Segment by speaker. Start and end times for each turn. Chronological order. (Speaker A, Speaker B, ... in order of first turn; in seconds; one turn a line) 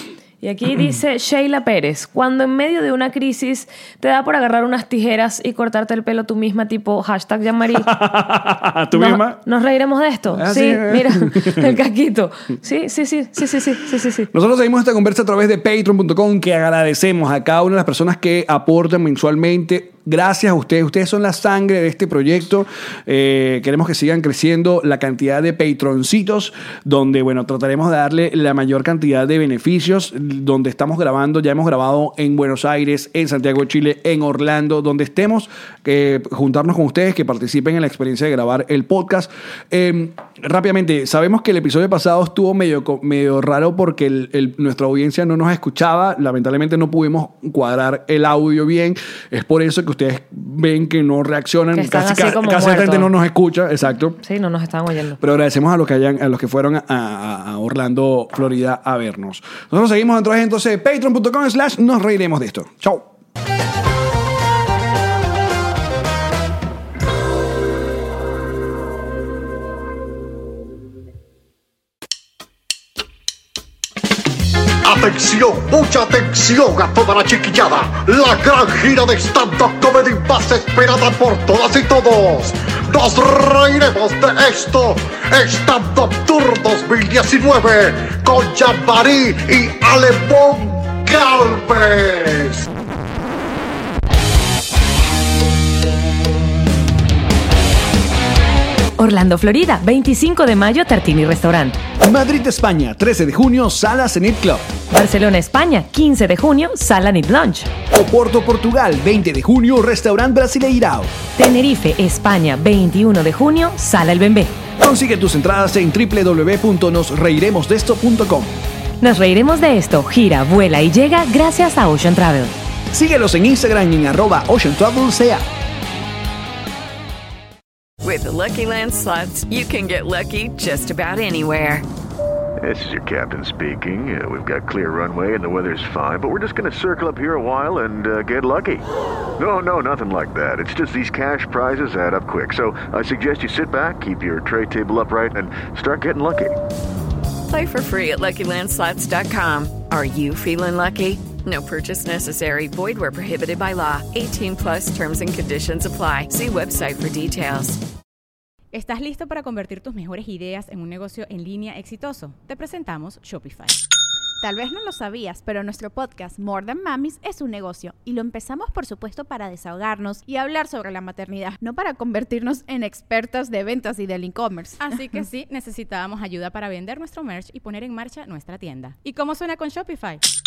Speaker A: 0.4-7.9
Speaker B: 7.7-9.4
Speaker A: 8.9-14.3
Speaker B: 10.3-11.8
Speaker B: 14.3-54.2
Speaker A: 51.7-53.1
Speaker A: 54.2-55.2
Speaker B: 55.2-63.1
Speaker C: 74.8-92.7
Speaker A: 99.0-101.8
Speaker B: 102.0-104.6
Speaker A: 104.9-107.7
Speaker B: 107.9-111.1
Speaker A: 111.4-114.5
Speaker B: 114.8-118.5
Speaker A: 119.0-122.5
Speaker B: 122.9-125.4
Speaker D: 128.0-131.8
Speaker E: 132.6-138.8
Speaker E: 139.4-146.6
Speaker D: 147.5-157.8
Speaker F: 158.7-163.8
Speaker G: 164.4-175.0
Speaker F: 174.8-180.2